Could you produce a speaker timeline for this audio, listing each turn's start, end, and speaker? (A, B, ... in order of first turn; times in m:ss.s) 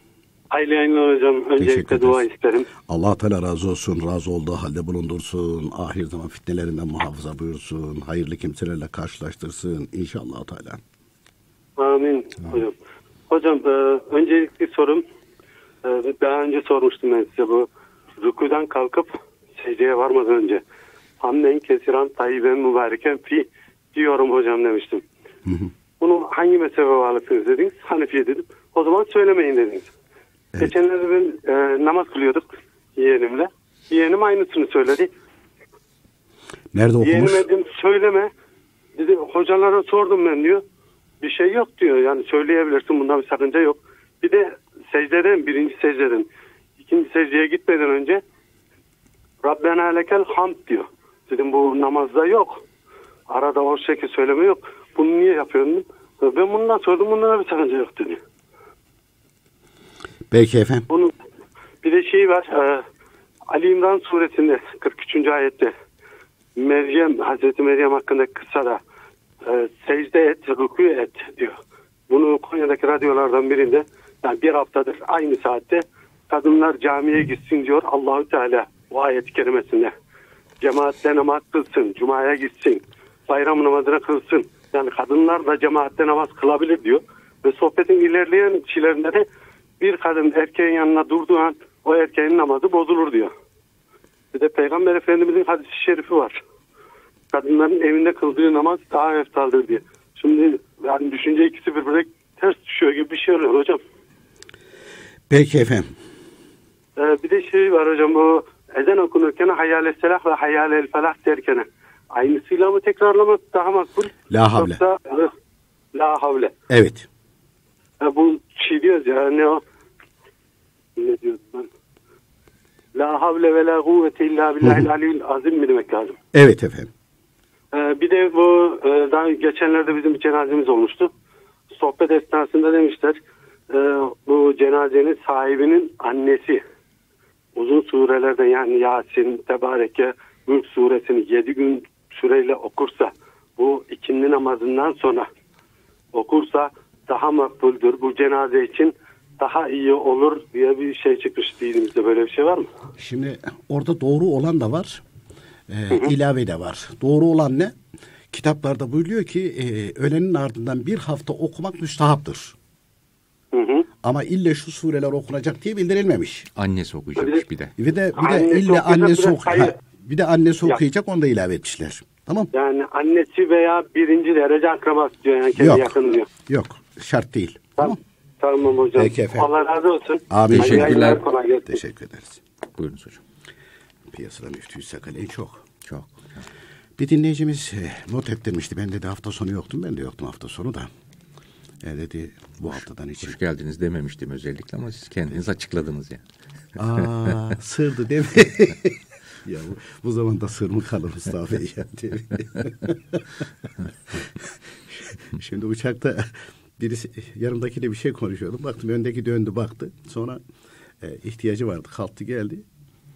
0:00.5-0:02.7 A
0:01.6-0:02.2 B
0:02.8-0:10.8 B
0:11.8-0:12.7 A
0:13.3-0:15.0 A
0:15.8-0:20.6 A
0:21.2-0:25.0 A
0:25.5-0:25.7 B
0:26.0-0:29.9 A
0:30.6-0:32.4 A
0:33.0-0:35.1 A
0:36.7-0:37.4 B
0:37.0-0:38.3 A
0:39.0-0:40.6 A
0:41.2-0:46.3 A
0:46.8-0:48.2 A
0:49.4-0:52.6 A
0:53.3-0:58.2 A
1:00.3-1:00.9 B
1:01.8-1:02.8 A
1:03.5-1:05.7 A
1:06.6-1:08.8 A
1:09.4-1:11.6 A
1:12.1-1:19.9 A
1:20.6-1:29.2 A
1:29.8-1:33.3 A
1:34.3-1:36.4 A
1:37.3-1:43.8 A
1:45.3-1:45.9 B
1:47.0-1:55.3 A
1:54.3-1:54.8 B
1:55.9-1:56.5 A
1:56.7-1:57.1 B
1:58.0-1:59.6 A
2:01.0-2:01.7 A
2:03.0-2:06.2 A
2:06.3-2:06.9 B
2:07.7-2:11.1 A
2:11.7-2:13.2 A
2:13.7-2:16.6 A
2:17.6-2:25.3 A
2:26.1-2:32.7 A
2:33.0-2:35.0 B
2:35.7-2:37.8 B
2:38.3-2:42.6 B
2:43.5-2:43.9 A
2:44.0-2:46.5 B
2:46.6-2:47.7 C
2:47.8-2:52.5 B
2:48.2-2:49.8 A
2:52.5-2:56.3 A
2:55.6-2:58.0 B
2:57.8-3:01.7 A
2:59.0-2:59.5 B
3:00.3-3:02.4 B
3:00.5-3:01.2 C
3:02.8-3:03.2 C
3:04.1-3:05.6 B
3:05.9-3:06.1 C
3:07.0-3:10.9 B
3:11.8-3:13.4 B
3:12.7-3:16.2 C
3:16.8-3:23.5 B
3:24.1-3:30.4 B
3:31.0-3:32.6 B